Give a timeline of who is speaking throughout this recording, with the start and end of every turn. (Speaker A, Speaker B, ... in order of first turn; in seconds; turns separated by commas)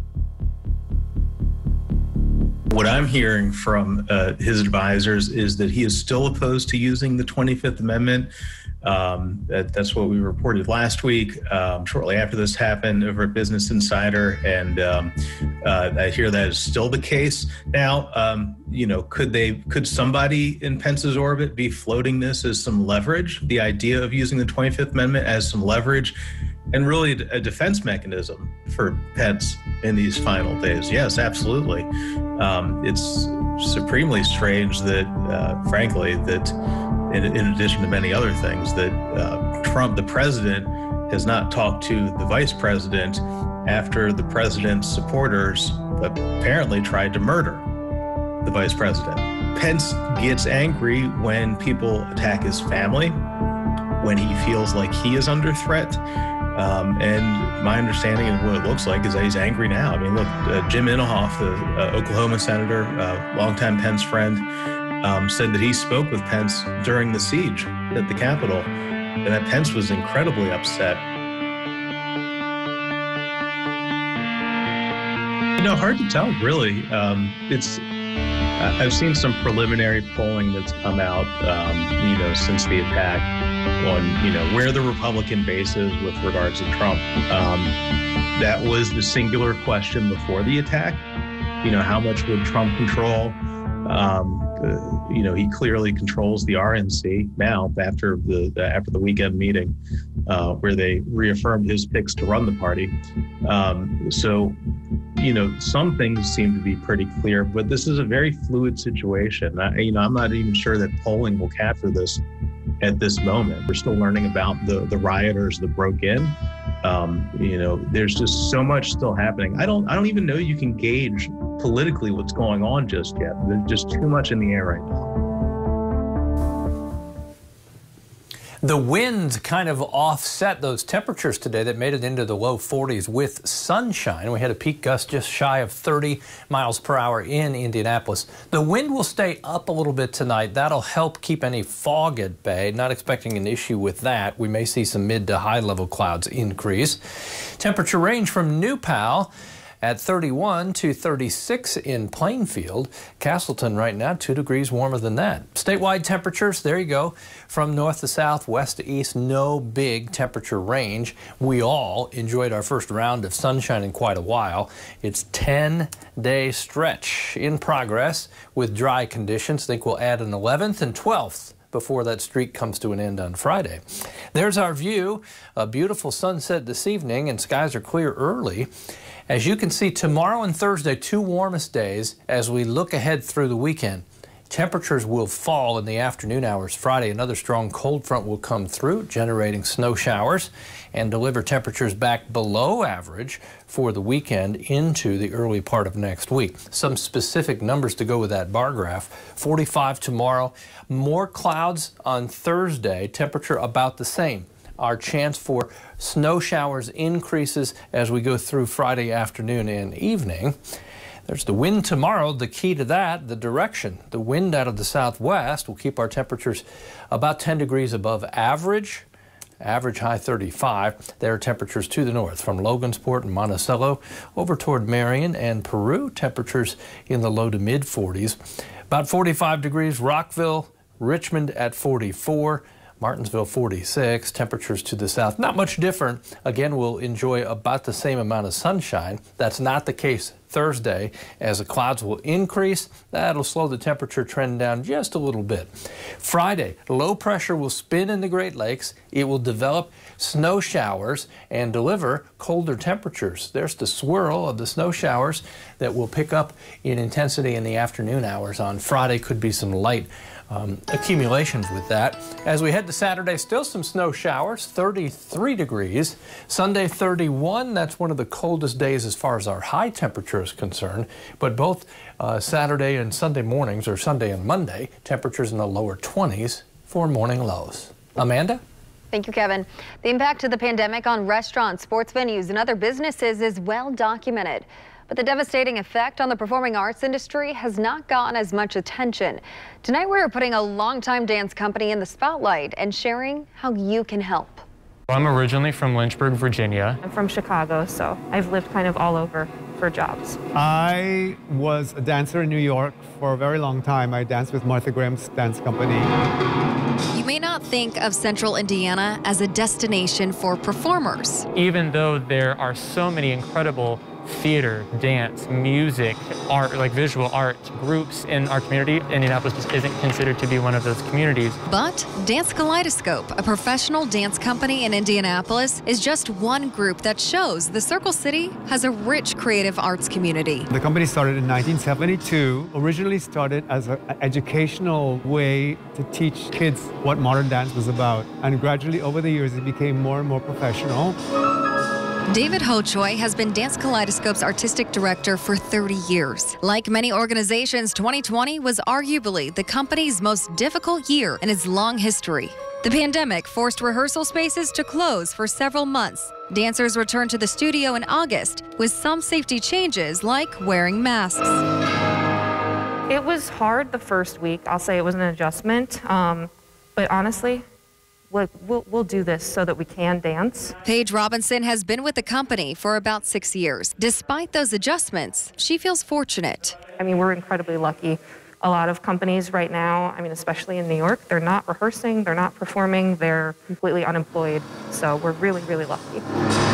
Speaker A: 2.7-8.3, Speaker A: 8.8-26.2, Speaker A: 26.7-36.5, Speaker A: 37.1-47.6, Speaker A: 48.4-53.2, Speaker A: 54.0-56.0, Speaker A: 56.5-64.5, Speaker A: 65.0-71.0, Speaker A: 75.6-77.8, Speaker A: 78.6-83.2, Speaker A: 83.8-87.8, Speaker A: 88.3-91.0, Speaker A: 91.6-99.7, Speaker A: 100.3-104.6, Speaker A: 105.2-112.2, Speaker A: 112.8-125.1, Speaker B: 128.6-149.3, Speaker B: 149.8-173.8, Speaker B: 174.3-178.7, Speaker B: 179.3-210.6, Speaker B: 211.3-219.1, Speaker B: 219.6-228.4, Speaker B: 228.9-278.6, Speaker C: 279.1-294.6, Speaker D: 295.1-297.0, Speaker E: 297.0-300.4, Speaker F: 300.5-306.1, Speaker C: 307.1-311.5, Speaker D: 311.5-321.6, Speaker C: 321.6-330.7, Speaker F: 330.7-341.2, Speaker C: 342.3-361.6, Speaker E: 363.1-367.6, Speaker E: 368.3-370.7, Speaker C: 370.8-376.8, Speaker E: 376.9-386.2